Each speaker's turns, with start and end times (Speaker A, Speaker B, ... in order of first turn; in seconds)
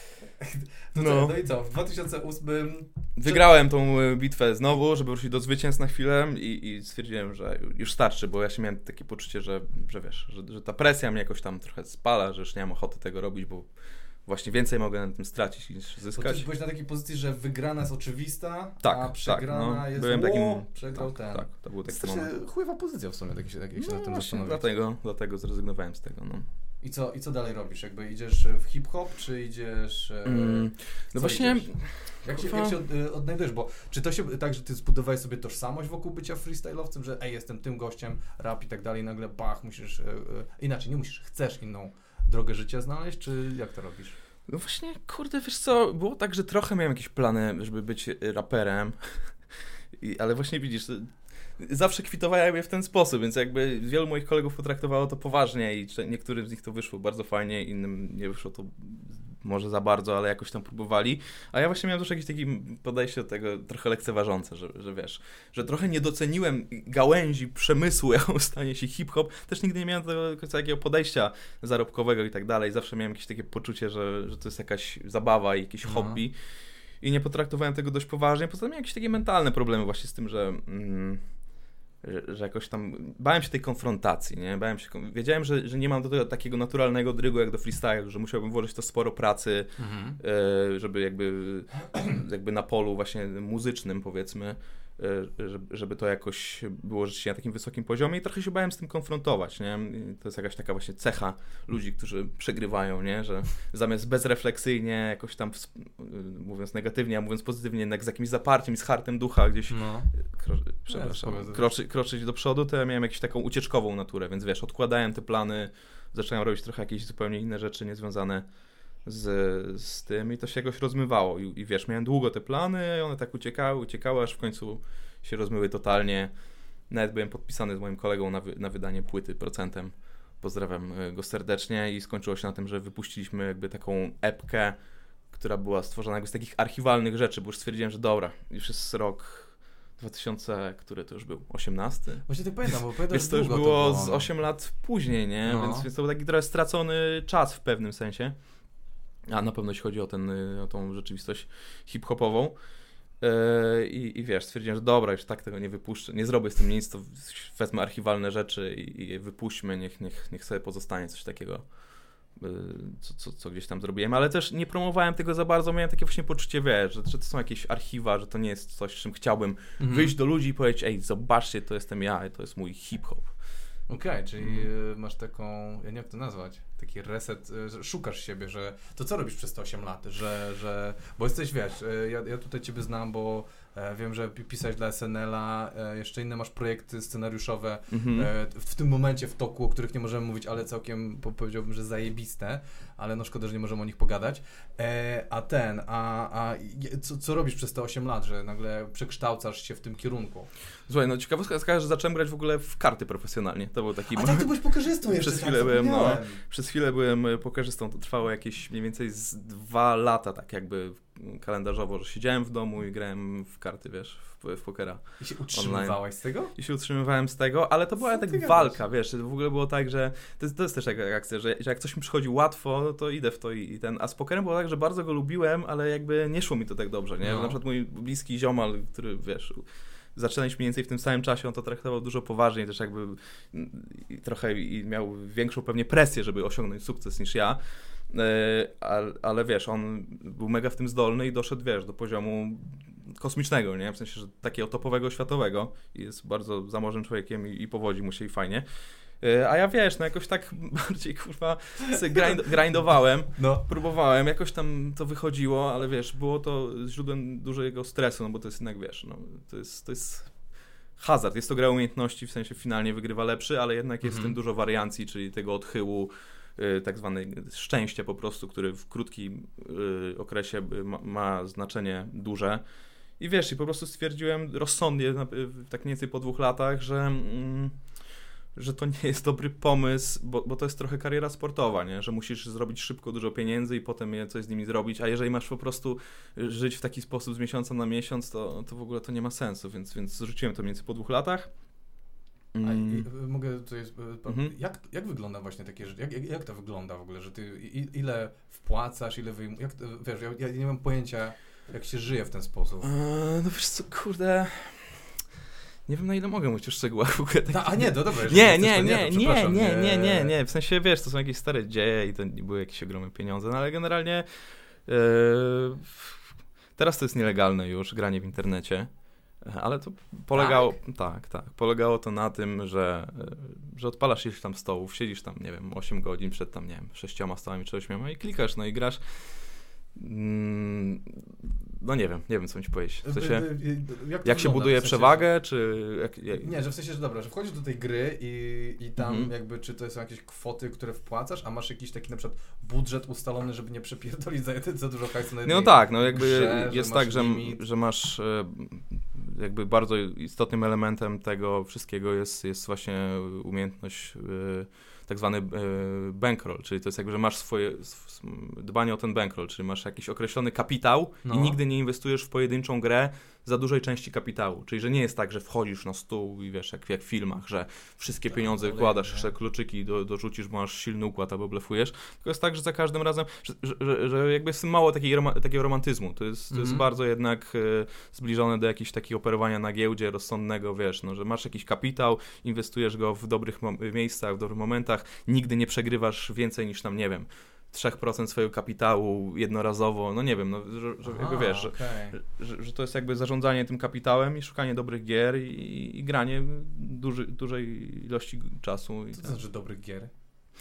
Speaker A: 0.4-3.5, 16.1-24.6, 26.8-44.2, 75.8-76.2, 89.8-90.2, 109.7-110.1, 110.9-111.7, 142.3-144.3, 145.5-145.9, 169.8-170.1, 173.9-200.5, 204.1-206.4, 215.2-216.5, 218.1-218.8, 227.2-227.6, 253.4-253.7, 264.0-264.4, 292.6-302.9, 307.5-310.4, 320.3-320.8, 333.0-335.3, 336.4-347.6, 361.2-361.6, 368.3-369.3, 376.5-376.9, 391.0-392.2, 399.1-400.1
Speaker B: 0.9-1.4, 3.2-13.7, 14.3-16.4, 18.8-22.3, 23.8-26.4, 30.2-32.8, 44.5-49.3, 50.0-76.4, 77.0-81.2, 82.0-118.5, 119.0-126.3, 126.9-134.8, 135.3-148.4, 149.3-152.6, 153.2-161.7, 162.4-173.3, 174.4-174.7, 187.9-188.3, 200.9-216.0, 216.6-237.6, 238.1-248.7, 249.2-260.3, 261.0-272.6, 273.2-277.8, 278.6-291.5, 292.5-293.1, 294.3-294.5, 302.8-305.0, 305.9-314.3, 314.9-316.2, 316.8-318.9, 319.4-329.2, 329.9-333.5, 334.2-336.6, 339.0-339.3, 345.4-399.4